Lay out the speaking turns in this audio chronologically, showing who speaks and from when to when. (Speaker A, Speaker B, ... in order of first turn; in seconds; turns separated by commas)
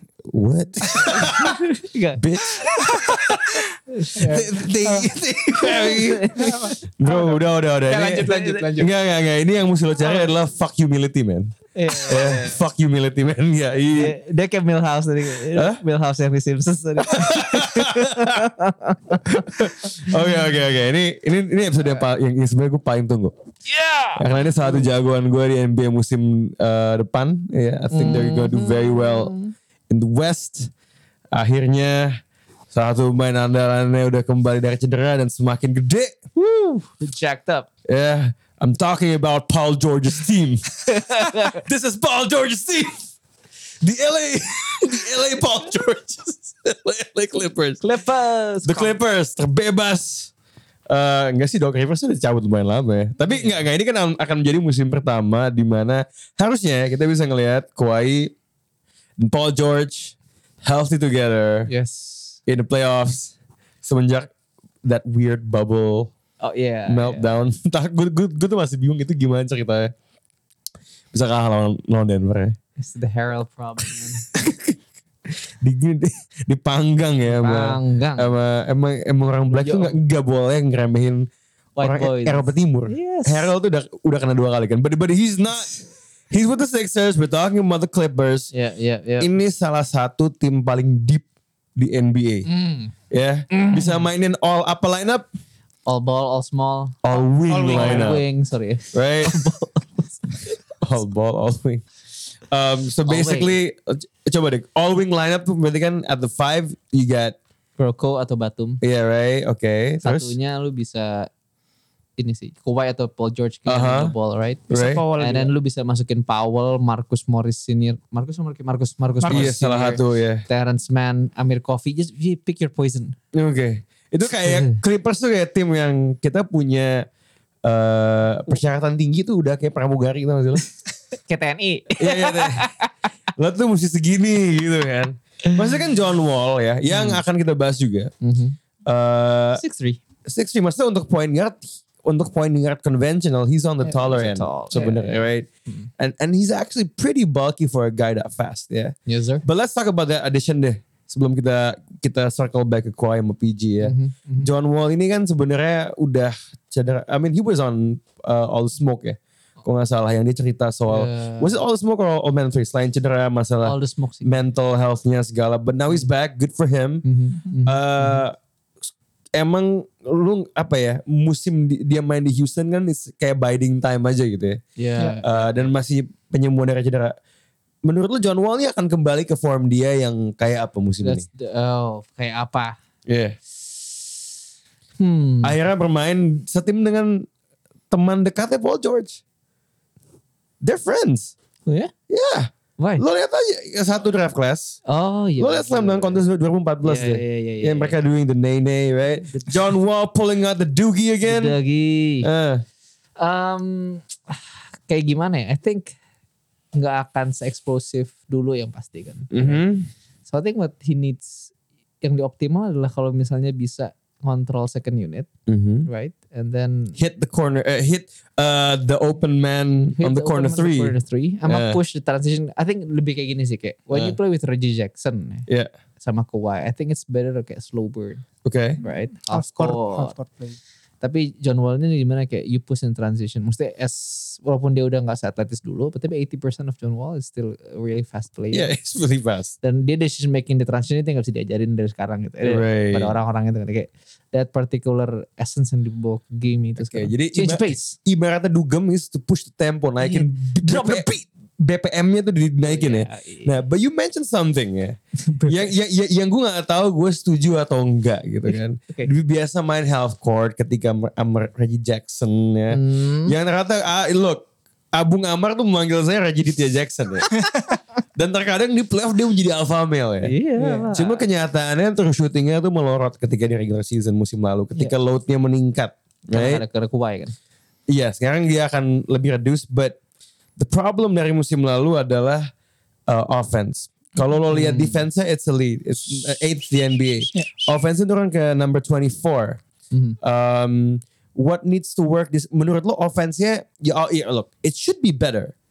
Speaker A: 0.3-1.6, Speaker B: 0.9-1.2, Speaker C: 1.0-2.2, Speaker A: 2.2-3.6, Speaker C: 4.0-4.4, Speaker B: 4.2-5.1, Speaker A: 4.2-6.3, Speaker C: 5.6-6.7, Speaker B: 6.3-8.9, Speaker A: 6.9-14.2, Speaker C: 8.2-8.8, Speaker B: 10.0-10.3, Speaker C: 11.7-12.6, Speaker C: 13.9-20.1, Speaker A: 15.5-15.8, Speaker A: 17.0-18.3, Speaker A: 19.2-23.3, Speaker C: 23.7-24.9, Speaker A: 24.1-29.3, Speaker C: 27.9-29.5, Speaker A: 29.9-30.7, Speaker A: 31.3-32.2, Speaker A: 32.7-36.3, Speaker C: 36.4-37.7, Speaker A: 37.9-40.6, Speaker C: 40.9-41.6, Speaker A: 41.2-43.1, Speaker A: 43.8-47.8, Speaker C: 47.8-49.0, Speaker A: 48.6-50.3, Speaker A: 50.9-58.3, Speaker C: 53.3-53.6, Speaker A: 59.2-61.7, Speaker C: 61.7-62.4, Speaker A: 62.5-64.3, Speaker A: 64.8-66.1, Speaker C: 66.4-67.3, Speaker A: 66.9-69.9, Speaker A: 71.1-72.5, Speaker C: 72.8-74.3, Speaker A: 74.3-74.7, Speaker A: 75.6-81.3, Speaker C: 77.2-78.3, Speaker C: 79.5-80.0, Speaker C: 81.8-83.5, Speaker A: 81.8-88.5, Speaker C: 88.5-89.3, Speaker A: 89.2-92.5, Speaker C: 92.5-92.9, Speaker A: 93.1-95.2, Speaker C: 93.5-94.0, Speaker C: 95.8-100.2, Speaker A: 97.0-98.2, Speaker B: 97.5-98.2, Speaker A: 98.9-99.3, Speaker A: 100.8-101.8, Speaker A: 102.5-107.4, Speaker C: 103.0-103.6, Speaker C: 107.8-108.8, Speaker A: 108.8-110.3, Speaker C: 110.0-111.3, Speaker C: 112.2-123.2, Speaker A: 113.7-114.1, Speaker B: 114.7-115.5, Speaker A: 114.7-115.0, Speaker B: 119.2-119.5, Speaker A: 119.3-120.4, Speaker A: 123.3-127.1, Speaker C: 124.4-124.8, Speaker A: 127.6-130.6, Speaker C: 131.1-132.9, Speaker A: 132.0-132.7, Speaker A: 133.4-138.1, Speaker C: 136.9-137.2, Speaker C: 138.2-138.6, Speaker A: 138.8-139.6, Speaker C: 139.5-140.0, Speaker A: 140.3-145.5, Speaker C: 143.8-145.9, Speaker A: 146.0-167.0, Speaker C: 149.1-149.4, Speaker C: 153.8-154.5, Speaker C: 160.9-161.6, Speaker C: 163.6-164.4, Speaker C: 167.0-168.2, Speaker A: 167.6-168.3, Speaker A: 169.3-174.6, Speaker C: 174.8-175.7, Speaker A: 175.2-177.2, Speaker A: 177.8-181.2, Speaker C: 181.0-182.8, Speaker A: 183.1-183.3, Speaker C: 185.0-185.6, Speaker A: 185.4-187.3, Speaker A: 187.9-189.2, Speaker A: 190.6-191.3, Speaker C: 191.7-191.9, Speaker A: 192.1-194.8, Speaker C: 192.8-193.0, Speaker C: 194.8-196.2, Speaker A: 195.4-201.6, Speaker C: 196.8-198.0, Speaker C: 201.2-202.3, Speaker A: 202.2-202.6, Speaker C: 203.2-205.9, Speaker C: 206.7-209.6, Speaker A: 209.3-209.9, Speaker C: 210.2-215.3, Speaker A: 215.5-215.9, Speaker C: 215.8-217.0, Speaker A: 217.0-221.8, Speaker C: 220.0-225.5, Speaker A: 223.9-224.2, Speaker C: 226.0-228.2, Speaker A: 228.4-228.8, Speaker C: 228.8-230.2, Speaker B: 229.3-230.6, Speaker C: 231.0-238.7, Speaker A: 238.5-239.5, Speaker C: 239.6-247.9, Speaker A: 242.4-243.2, Speaker A: 246.8-267.4, Speaker C: 250.0-251.1, Speaker C: 252.6-253.6, Speaker C: 255.2-255.7, Speaker C: 258.5-259.1, Speaker C: 262.7-263.4, Speaker A: 268.1-276.6, Speaker C: 270.2-271.2, Speaker C: 276.3-277.3, Speaker A: 277.9-280.0, Speaker A: 280.6-282.5, Speaker A: 283.1-289.6, Speaker C: 284.5-285.1, Speaker C: 289.9-290.2, Speaker A: 290.2-295.5